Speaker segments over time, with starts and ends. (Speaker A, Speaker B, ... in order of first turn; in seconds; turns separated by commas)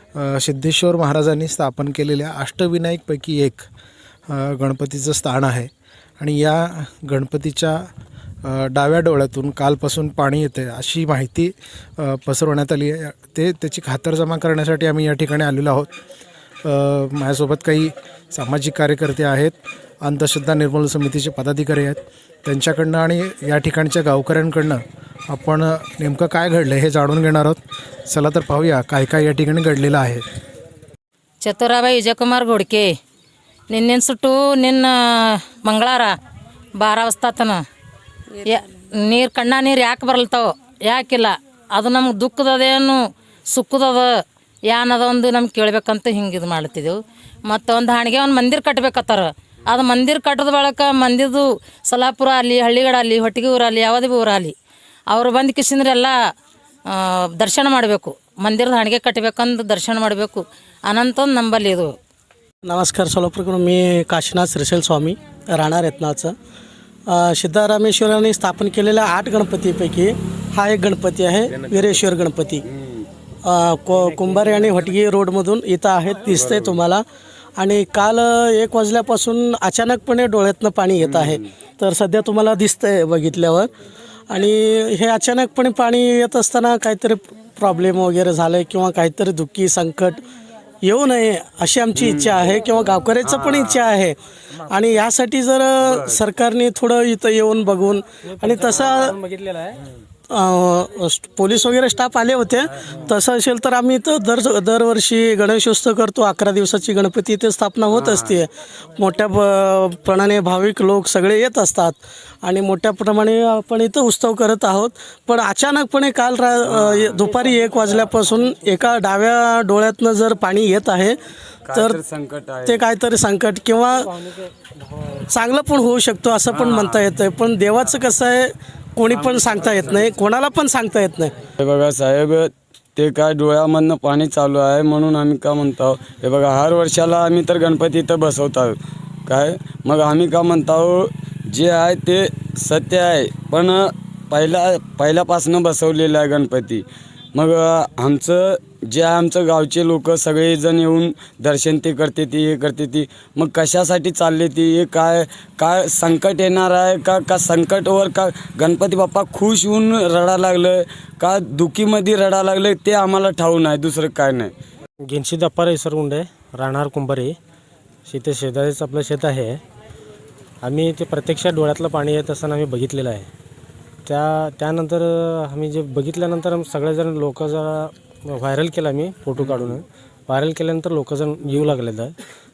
Speaker A: 0.1-3.7, Speaker A: 4.3-7.9, Speaker A: 8.4-15.9, Speaker A: 16.6-30.2, Speaker B: 31.4-32.9, Speaker B: 33.7-36.1, Speaker B: 36.7-37.6, Speaker B: 38.4-54.5, Speaker B: 55.1-56.1, Speaker B: 56.9-61.9, Speaker C: 62.6-66.3, Speaker C: 67.1-72.6, Speaker D: 71.7-72.0, Speaker D: 72.8-73.0, Speaker C: 73.4-77.0, Speaker D: 76.4-76.7, Speaker C: 77.6-83.7, Speaker D: 81.0-81.4, Speaker C: 84.3-90.2, Speaker C: 90.8-94.2, Speaker D: 91.9-92.5, Speaker D: 93.2-93.8, Speaker C: 94.7-99.2, Speaker E: 98.2-99.8, Speaker C: 100.3-121.2, Speaker D: 116.8-117.2, Speaker E: 117.3-118.8, Speaker D: 121.7-122.8, Speaker C: 121.7-122.0, Speaker C: 122.6-124.1, Speaker C: 125.3-131.3, Speaker D: 126.5-127.0, Speaker D: 129.6-130.0, Speaker D: 131.6-164.5, Speaker E: 165.0-167.3, Speaker E: 168.1-169.6, Speaker E: 170.6-173.3, Speaker E: 174.1-182.1